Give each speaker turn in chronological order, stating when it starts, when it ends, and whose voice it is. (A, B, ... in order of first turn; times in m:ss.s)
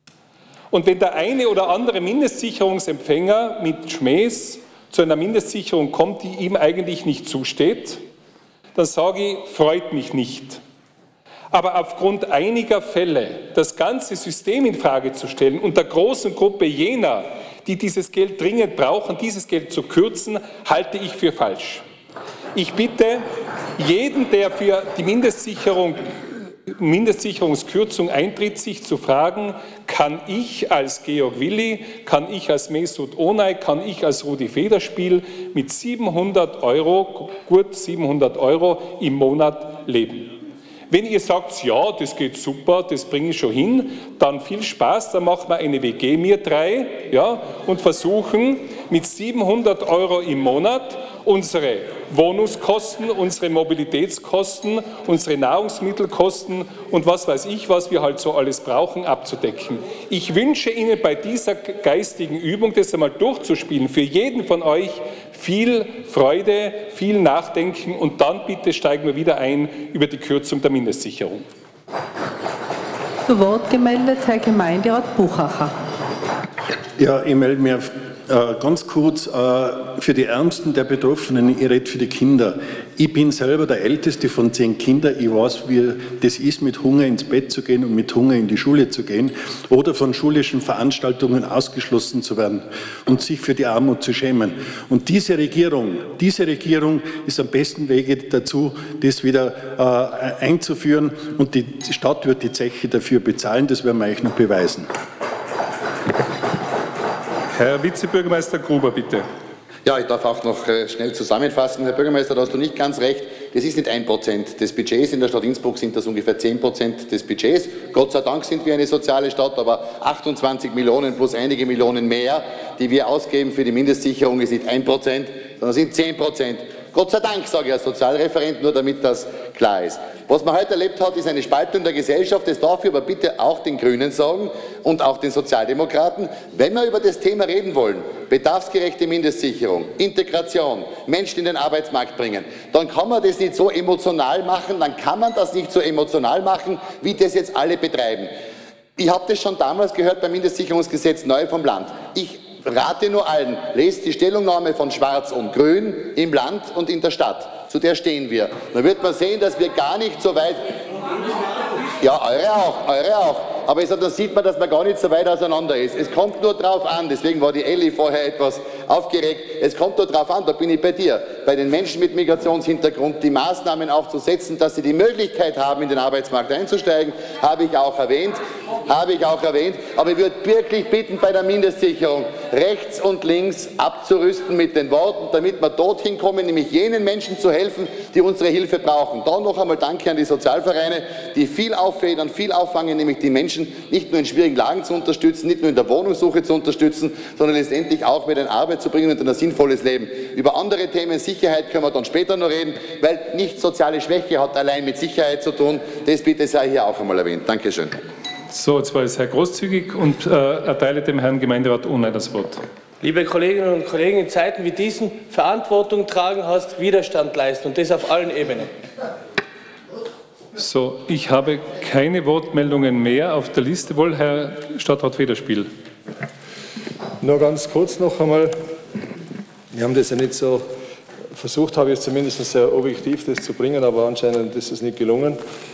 0:00.7-0:08.0 A
0:08.7-0:10.6 A
0:11.5-0:21.8 A
0:22.5-0:23.3 A
0:23.8-0:40.4 A
0:40.9-1:11.4 A
1:13.3-1:15.7 B
1:17.0-1:44.9 C
1:47.5-1:49.2 A
1:49.8-2:28.3 D
2:29.0-2:40.6 D
2:42.0-3:28.0 D
3:28.5-3:32.6 A
3:33.0-3:38.7 E
3:40.6-3:45.7 A
3:47.2-3:48.6 F
3:49.7-3:50.7 F
3:51.3-3:55.4 F